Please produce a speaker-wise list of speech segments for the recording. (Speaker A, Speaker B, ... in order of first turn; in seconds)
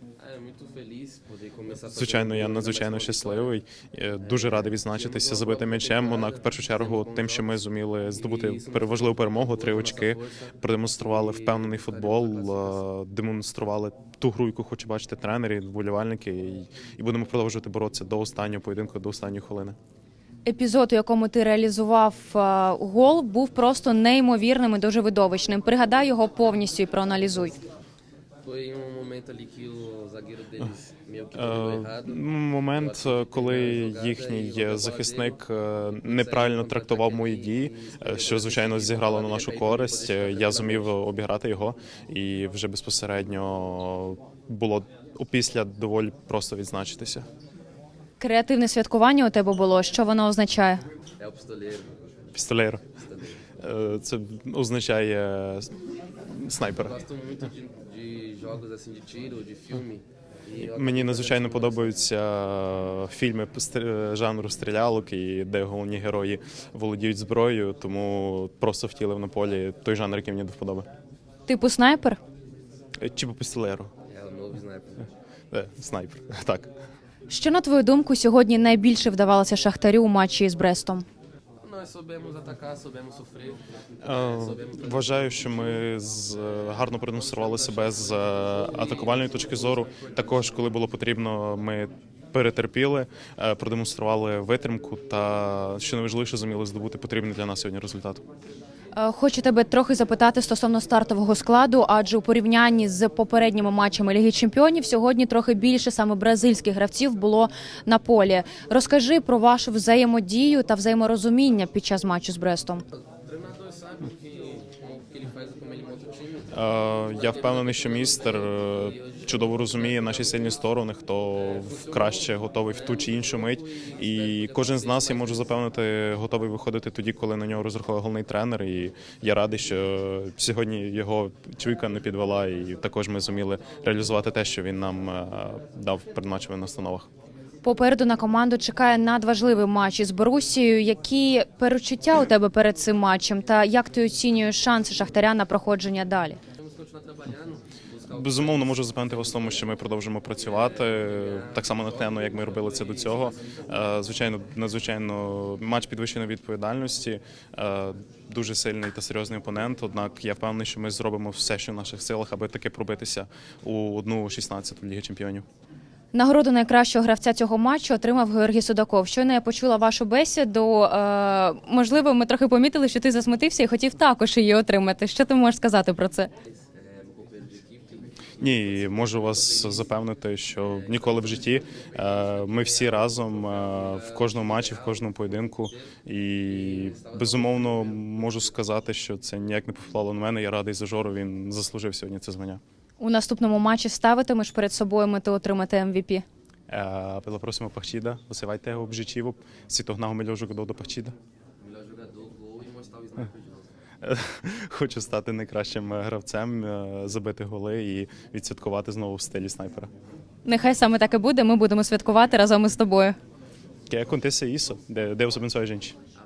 Speaker A: 0.2-3.6, 4.2-12.8, 28.4-35.4, 36.0-40.9, 51.2-51.9, 53.0-53.4, 56.7-62.0, 74.1-75.1, 81.6-85.8, 86.7-90.7, 113.1-120.6, 121.3-125.5, 146.6-149.8, 150.4-153.6, 176.6-179.9, 180.6-188.5, 201.6-203.7
Speaker B: 1.9-19.8, 31.3-47.2, 52.4-52.8, 53.6-55.7, 56.3-57.0, 60.6-70.9, 73.0-73.9, 75.5-76.7, 84.0-98.2, 116.5-137.1, 148.1-165.4, 178.4-192.6, 196.7-201.2, 204.0-209.9, 213.9-215.9
Speaker C: 20.4-27.6, 48.2-50.8, 71.5-72.2, 77.3-81.0, 99.0-112.8, 137.6-146.4, 166.1-176.3, 193.0-196.2, 210.4-213.2